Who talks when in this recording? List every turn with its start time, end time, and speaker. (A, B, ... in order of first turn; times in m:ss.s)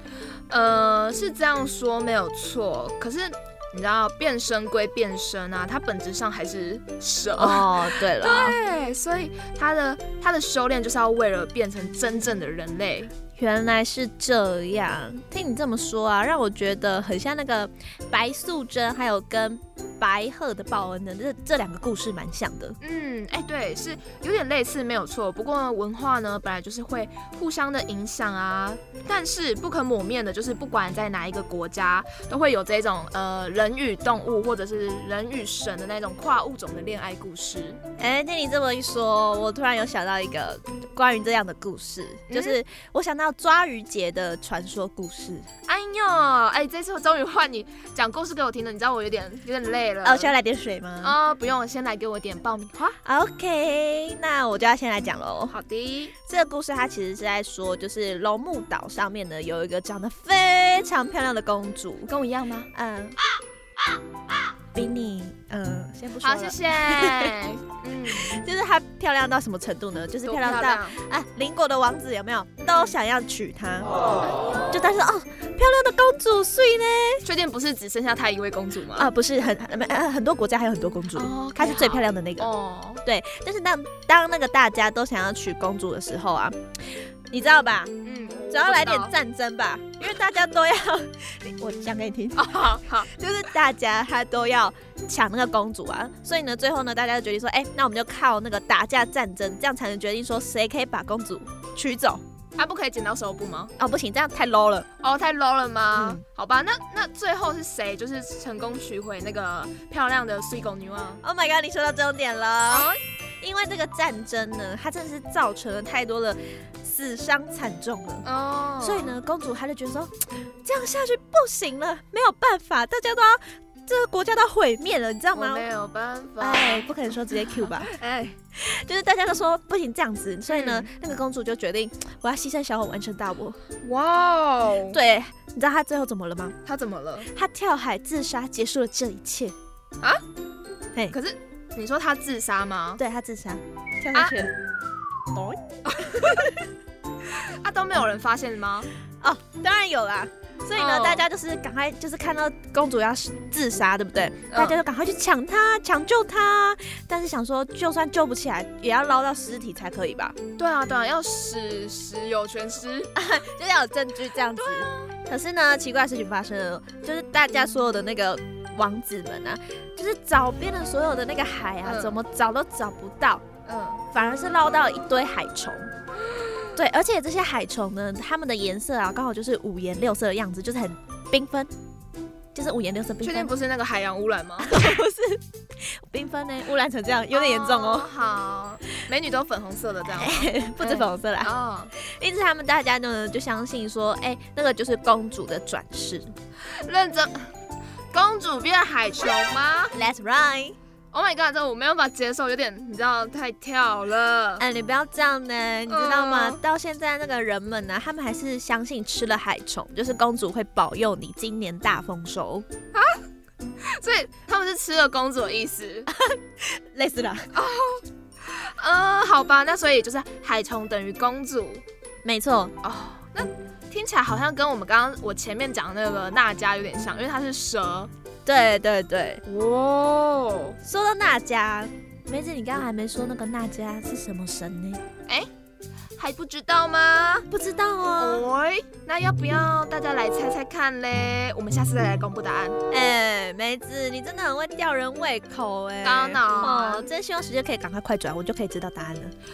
0:00.5-0:13.1 A
0:07.4-0:08.6 B
0:13.4-0:22.8 B
0:22.8-0:37.8 A
0:38.0-0:45.4 B
0:42.3-0:42.6 A
0:45.7-0:50.3 A
0:50.0-0:51.1 B
0:51.0-0:53.0 A
0:53.0-0:55.5 B
0:55.5-0:56.1 A
0:56.3-1:02.1 B
1:02.1-1:02.7 A
1:02.7-1:03.2 B
1:04.7-1:07.3 B
1:06.2-1:08.4 A
1:08.2-1:13.9 B
1:10.2-1:11.0 A
1:14.2-1:14.6 A
1:14.7-1:17.2 B
1:17.2-1:19.1 A
1:19.0-1:22.5 B
1:21.1-1:23.0 A
1:23.0-1:26.6 B
1:27.3-1:27.9 B
1:28.0-1:29.1 A
1:28.5-1:42.2 B
1:32.3-1:33.1 A
1:42.6-1:43.7 A
1:43.8-1:44.8 B
1:45.0-1:51.2 A
1:45.9-1:46.2 B
1:51.2-1:52.9 B
1:52.7-1:53.0 A
1:53.4-1:58.2 B
1:58.2-1:59.2 A
1:58.8-2:05.6 B
2:05.3-2:08.4 A
2:06.4-2:07.9 B
2:08.5-2:13.6 B
2:10.5-2:10.9 A
2:13.8-2:15.0 A
2:14.9-2:16.5 B
2:16.6-2:17.3 A
2:17.3-2:19.5 B
2:21.1-2:23.0 A
2:23.0-2:24.5 B
2:24.1-2:24.4 A
2:25.3-2:26.6 B
2:25.8-2:26.5 A
2:27.3-2:28.9 A
2:29.2-2:40.3 B
2:30.7-2:31.2 A
2:34.5-2:34.8 A
2:40.6-2:43.1 A
2:43.2-2:53.4 B
2:44.5-2:45.1 A
2:51.8-2:52.2 A
2:53.6-2:54.1 A
2:54.1-2:55.9 B
2:56.3-2:56.7 A
2:56.8-3:01.7 B
3:02.5-3:03.5 B
3:03.2-3:04.7 A
3:04.6-3:08.1 B
3:07.3-3:11.9 A
3:10.2-3:16.3 B
3:16.7-3:17.5 A
3:18.1-3:19.9 A
3:19.9-3:20.8 B
3:21.1-3:24.6 A
3:24.6-3:32.6 B
3:25.9-3:26.6 A
3:32.9-3:33.2 A
3:33.9-3:36.1 A
3:36.1-3:37.5 B
3:37.5-3:41.8 A
3:42.2-3:42.7 B
3:42.8-3:48.1 A
3:48.4-3:49.4 B
3:49.4-3:50.8 A
3:50.8-3:55.0 B
3:56.2-3:57.5 A
3:57.5-3:58.4 B
3:58.2-4:02.8 A
4:02.9-4:09.3 B
4:06.0-4:07.1 A